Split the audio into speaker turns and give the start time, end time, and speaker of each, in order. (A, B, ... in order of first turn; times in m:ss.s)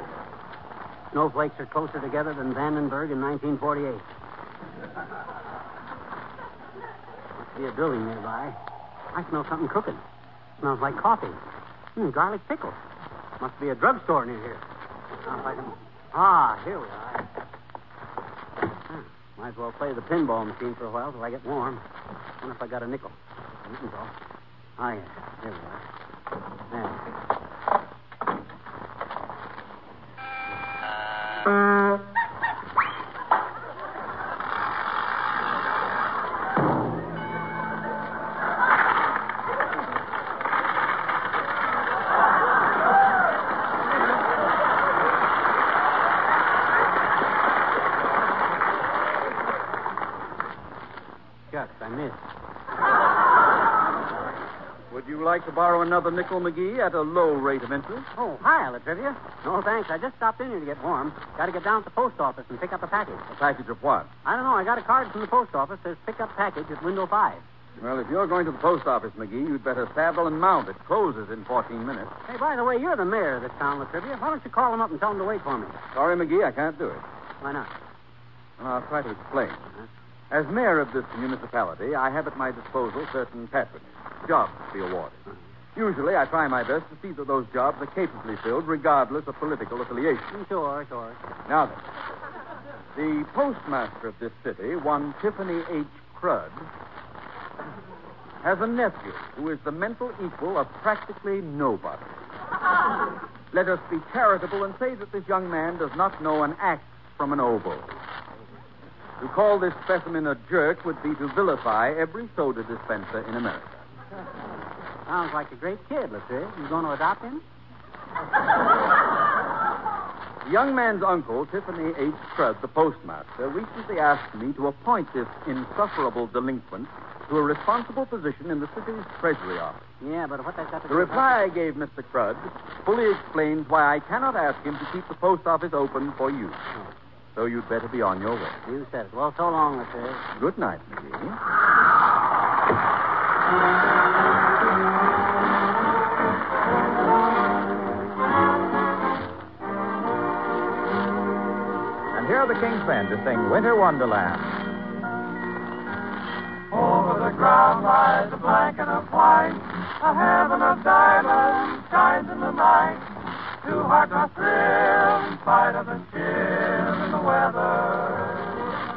0:01.1-0:04.0 A
0:07.4-0:08.6 A
0:09.1-0:10.0 A
0:10.6-0:11.4 A
0:12.0-0:12.8 A
0:13.4-0:14.6 A
0:15.2-0:17.3 A
0:18.9-0:21.8 A
0:22.4-0:24.1 A
0:24.8-0:25.8 A
0:26.7-0:27.0 A
0:51.5-0:52.2 A
0:54.9-0:58.1 B
0:58.2-1:03.2 A
1:03.3-1:04.1 B
1:04.2-1:07.4 A
1:07.8-1:12.1 B
1:12.3-1:15.8 A
1:15.9-1:17.0 B
1:17.4-1:17.7 A
1:18.6-1:19.7 B
1:20.3-1:25.2 B
1:25.7-1:30.4 B
1:30.3-1:31.2 A
1:31.5-1:31.8 B
1:32.9-1:36.7 B
1:38.4-1:42.1 B
1:43.5-1:47.9 B
1:49.2-1:53.8 B
1:55.1-1:57.4 A
2:00.4-2:09.9 B
2:10.0-2:11.4 A
2:10.9-2:16.6 B
2:17.3-2:18.6 B
2:18.6-2:20.2 A
2:20.4-2:21.4 B
2:32.1-2:34.5 C
2:36.7-2:43.1 D
2:43.6-2:48.5 D